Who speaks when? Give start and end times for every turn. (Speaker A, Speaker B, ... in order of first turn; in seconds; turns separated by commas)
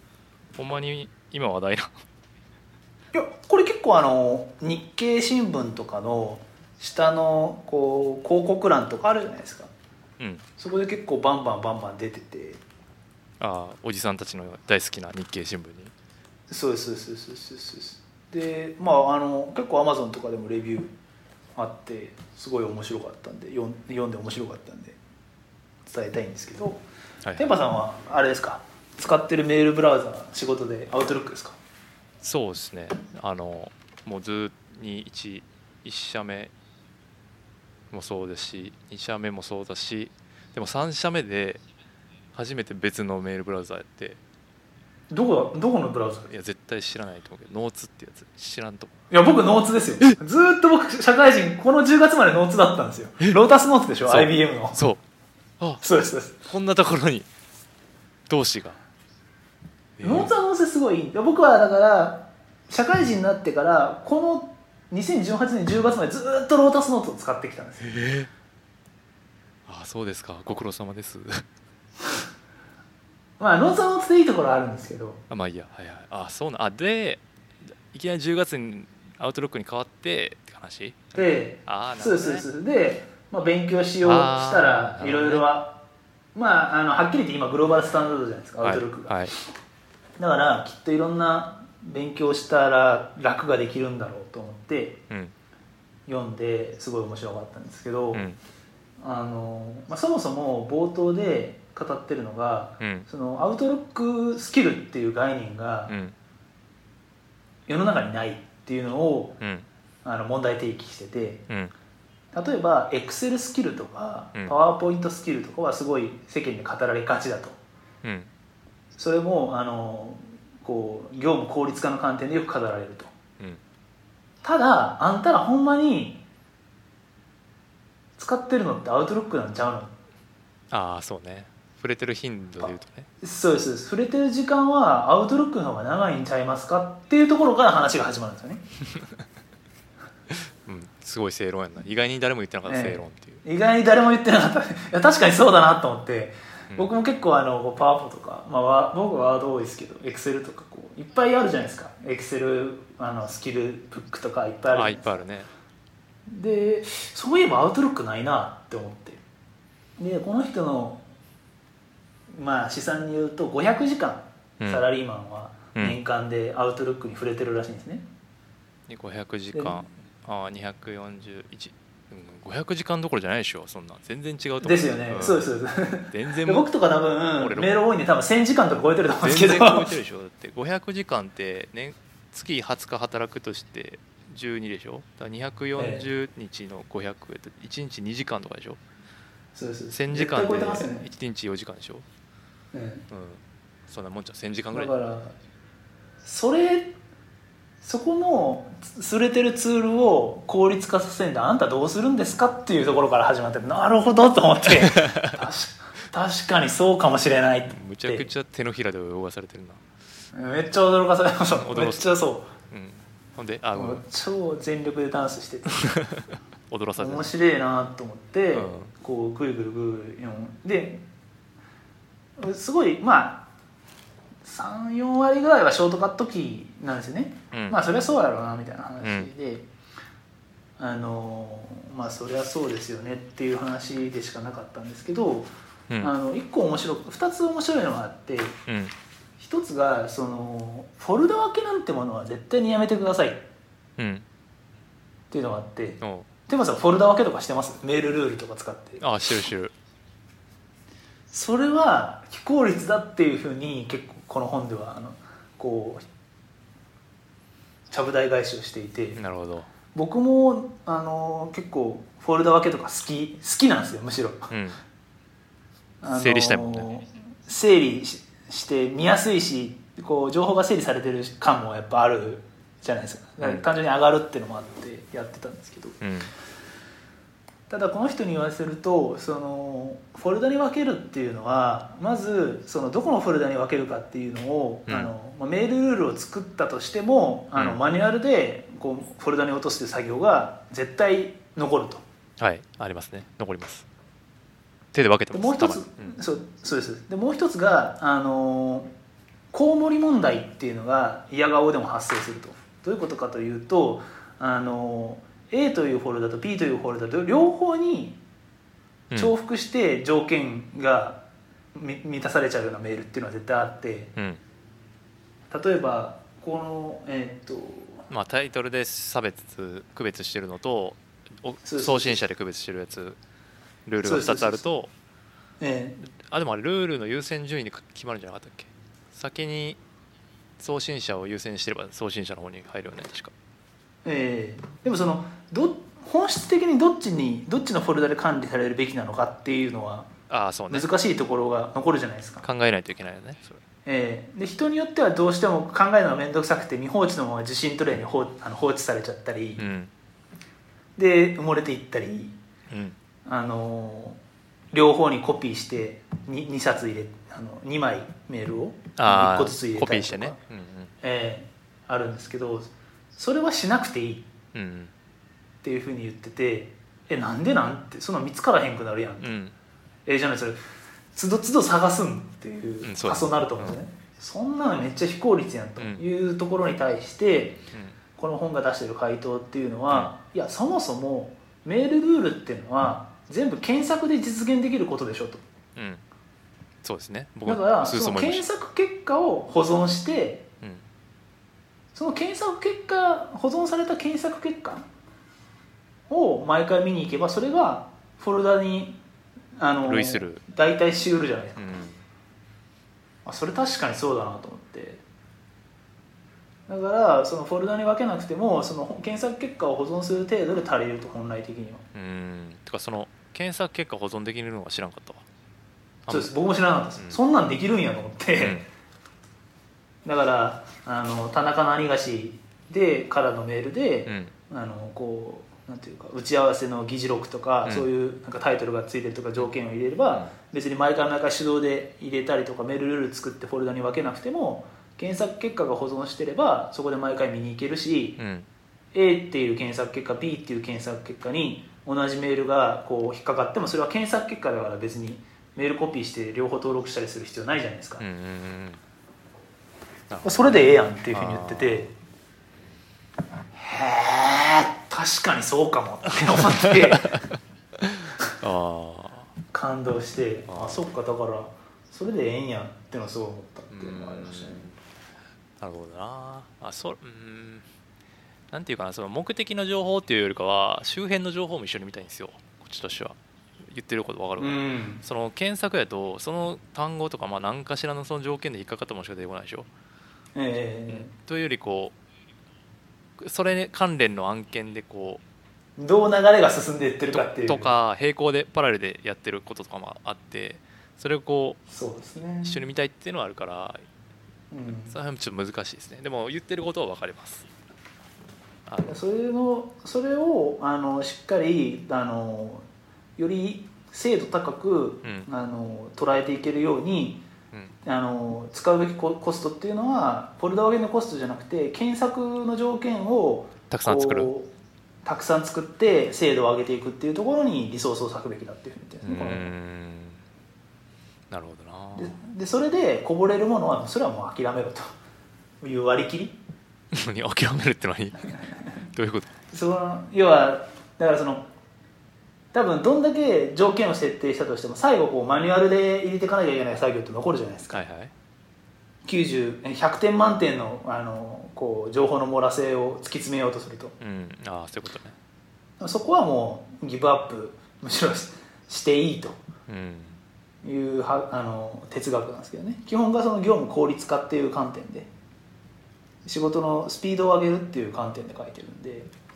Speaker A: 0.6-1.9, Speaker B: 3.1-9.7, Speaker A: 10.2-10.4, Speaker B: 10.6-12.6, Speaker A: 13.4-15.9, Speaker B: 16.5-20.9, Speaker B: 21.6-25.0, Speaker B: 25.8-26.8, Speaker B: 27.4-31.6, Speaker A: 32.2-36.5, Speaker A: 37.9-41.6, Speaker A: 42.3-44.2, Speaker B: 45.1-46.3, Speaker A: 46.3-48.9, Speaker B: 49.1-54.8, Speaker A: 54.0-55.0, Speaker B: 55.8-56.4, Speaker A: 56.4-57.3, Speaker A: 58.3-58.8, Speaker A: 60.0-60.3, Speaker B: 60.0-67.8, Speaker A: 67.8-68.3, Speaker A: 69.7-71.4, Speaker B: 73.4-75.2, Speaker A: 75.3-77.2, Speaker A: 77.9-82.4, Speaker B: 81.1-85.8, Speaker A: 84.0-85.5, Speaker B: 86.3-89.2, Speaker A: 88.6-89.3, Speaker B: 90.2-95.0, Speaker B: 96.1-98.3, Speaker A: 98.1-98.4, Speaker B: 99.0-105.9, Speaker A: 102.8-103.0, Speaker A: 105.9-106.1, Speaker B: 107.7-109.4, Speaker A: 109.4-109.7, Speaker B: 110.0-111.5, Speaker A: 111.5-111.7, Speaker B: 112.3-117.6, Speaker A: 118.0-118.3, Speaker B: 119.0-123.1, Speaker B: 124.4-126.2, Speaker B: 128.2-129.9, Speaker A: 130.7-133.1, Speaker B: 132.6-138.6, Speaker A: 140.3-143.4, Speaker B: 142.7-155.2, Speaker A: 154.7-155.5, Speaker B: 156.3-159.2, Speaker B: 160.0-161.0, Speaker B: 162.3-168.1, Speaker A: 164.6-164.9, Speaker A: 168.9-175.5, Speaker B: 169.5-169.8, Speaker B: 174.6-179.9, Speaker A: 176.1-176.7, Speaker A: 177.4-177.7, Speaker A: 179.2-188.8, Speaker B: 185.8-186.1, Speaker B: 189.5-191.1, Speaker A: 189.9-192.0, Speaker B: 192.7-193.1, Speaker A: 193.1-194.9, Speaker B: 194.7-195.4, Speaker B: 196.2-196.9, Speaker B: 197.8-208.3, Speaker A: 204.9-205.4, Speaker A: 207.7-209.8, Speaker B: 210.3-212.5, Speaker A: 211.5-212.1, Speaker A: 212.7-214.0, Speaker B: 213.7-215.9, Speaker A: 215.8-217.3, Speaker B: 217.0-221.0, Speaker A: 218.5-218.9, Speaker B: 222.4-223.5, Speaker B: 224.4-229.7, Speaker A: 227.5-227.8, Speaker A: 229.0-229.3, Speaker B: 230.8-235.5, Speaker B: 236.0-238.6, Speaker A: 238.7-238.9, Speaker B: 239.4-243.5, Speaker A: 244.0-244.2, Speaker B: 245.3-249.0, Speaker A: 246.0-246.3, Speaker A: 249.0-249.7, Speaker B: 251.3-256.1, Speaker B: 257.9-259.2, Speaker A: 259.1-259.7, Speaker B: 259.9-264.5, Speaker A: 264.5-264.8, Speaker B: 266.0-276.0, Speaker A: 266.1-266.9, Speaker A: 273.4-273.7, Speaker A: 276.0-276.3, Speaker B: 277.7-292.0, Speaker A: 284.9-285.1, Speaker A: 287.5-287.8, Speaker A: 292.4-293.9, Speaker A: 294.9-296.2, Speaker B: 295.3-298.9, Speaker B: 299.5-308.2, Speaker A: 309.1-309.3, Speaker B: 309.1-314.1, Speaker A: 314.1-314.4, Speaker B: 315.5-318.0, Speaker A: 318.1-323.2, Speaker B: 321.6-322.2, Speaker A: 323.9-324.9, Speaker B: 324.0-324.6, Speaker B: 325.6-326.0, Speaker A: 326.2-329.8, Speaker A: 330.6-333.3, Speaker B: 334.0-340.1, Speaker A: 340.3-340.9, Speaker B: 340.7-342.4, Speaker A: 342.4-343.6, Speaker B: 343.9-349.6, Speaker A: 349.6-349.9, Speaker B: 351.0-352.4, Speaker A: 352.7-352.9, Speaker B: 353.2-354.2, Speaker B: 354.7-360.4, Speaker A: 359.0-360.9, Speaker B: 361.0-364.3, Speaker A: 364.5-364.9, Speaker B: 365.6-369.3, Speaker A: 369.2-369.5, Speaker B: 370.1-370.6, Speaker B: 371.1-377.6, Speaker A: 372.8-373.8, Speaker A: 375.8-376.0, Speaker B: 378.2-385.4, Speaker A: 385.8-386.0, Speaker A: 386.8-388.5, Speaker B: 387.4-390.5, Speaker B: 391.9-394.9, Speaker B: 396.1-399.0, Speaker B: 399.6-401.7, Speaker A: 399.8-400.4, Speaker A: 401.6-402.0, Speaker B: 403.2-405.0, Speaker B: 406.7-411.9, Speaker A: 411.9-415.2, Speaker A: 416.1-416.3, Speaker B: 416.1-418.6, Speaker A: 418.4-418.6, Speaker B: 420.0-438.2, Speaker A: 424.1-424.3, Speaker A: 438.2-438.5, Speaker B: 438.9-448.0, Speaker A: 448.0-448.8, Speaker A: 450.1-451.9, Speaker B: 450.2-451.9, Speaker B: 453.5-457.1, Speaker A: 456.3-459.3, Speaker B: 459.5-464.6, Speaker A: 460.5-460.8, Speaker A: 463.7-464.8, Speaker A: 465.6-467.6, Speaker A: 468.5-479.7, Speaker B: 474.4-475.0, Speaker B: 480.3-481.1, Speaker A: 480.9-481.9, Speaker A: 483.2-485.2, Speaker B: 485.8-487.7, Speaker A: 487.1-491.6, Speaker B: 491.7-492.6, Speaker A: 492.4-493.9, Speaker B: 494.5-494.9, Speaker A: 494.9-497.5, Speaker A: 498.7-498.9, Speaker B: 498.8-502.6, Speaker B: 503.2-507.2, Speaker B: 507.8-514.5, Speaker A: 513.7-514.3, Speaker B: 515.0-519.5, Speaker A: 519.0-520.2, Speaker A: 521.3-522.1, Speaker B: 522.0-524.9, Speaker B: 525.6-526.4, Speaker A: 526.9-529.3, Speaker B: 529.5-531.5, Speaker B: 532.5-537.8, Speaker A: 537.7-538.1, Speaker B: 539.0-544.0, Speaker A: 544.0-545.1, Speaker B: 545.8-549.4, Speaker A: 549.7-550.2, Speaker B: 550.6-555.1, Speaker B: 556.2-559.1